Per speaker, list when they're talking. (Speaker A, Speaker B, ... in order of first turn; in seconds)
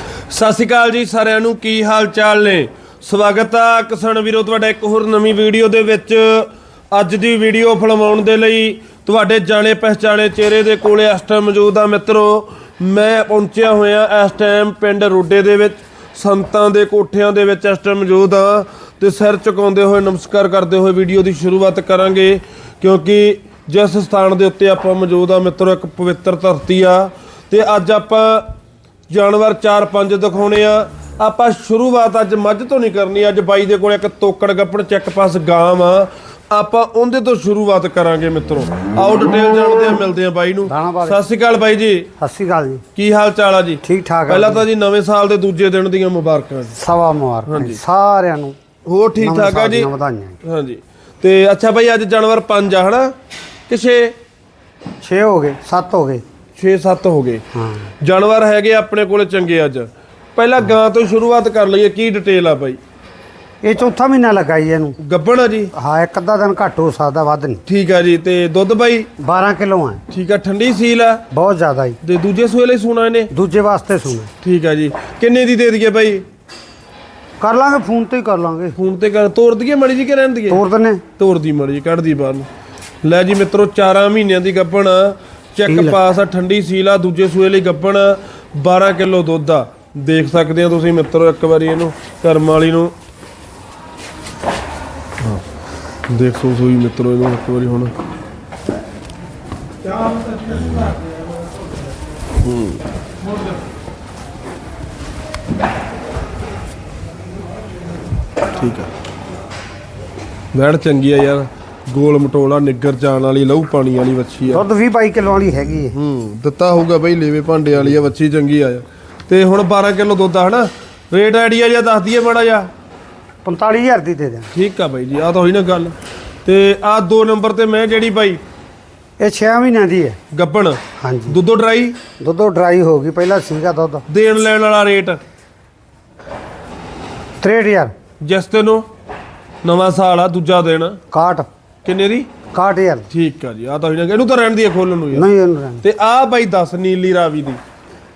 Speaker A: 0.3-28.5, 29.1-42.1, 42.9-46.8, 47.5-47.8, 48.8-49.9, 50.4-53.1, 53.7-54.1, 56.5-57.4, 58.0-62.8, 65.0-65.7, 67.7-69.1, 70.1-71.2, 72.0-73.3, 74.4-76.2, 78.8-80.6, 81.2-82.5, 83.0-92.9, 96.1-97.9, 102.4-102.8, 108.5-108.9, 110.5-114.6, 115.9-122.7, 124.5-128.4, 130.3-132.0, 134.1-135.2, 138.2-138.8, 139.6-141.0, 141.8-142.3, 143.1-145.3, 145.8-147.6
Speaker B: 40.6-41.2, 42.2-42.8, 43.8-44.6, 46.7-48.5, 49.2-50.4, 55.0-56.2, 57.5-57.9, 63.6-65.0, 65.7-67.6, 69.2-70.0, 71.3-72.0, 73.3-74.3, 77.4-78.8, 80.5-81.0, 85.7-86.0, 114.5-115.9, 123.4-124.5, 129.2-130.2, 131.0-131.4, 132.2-134.0, 137.4-137.9, 141.1-141.5, 142.5-143.1, 145.1-145.8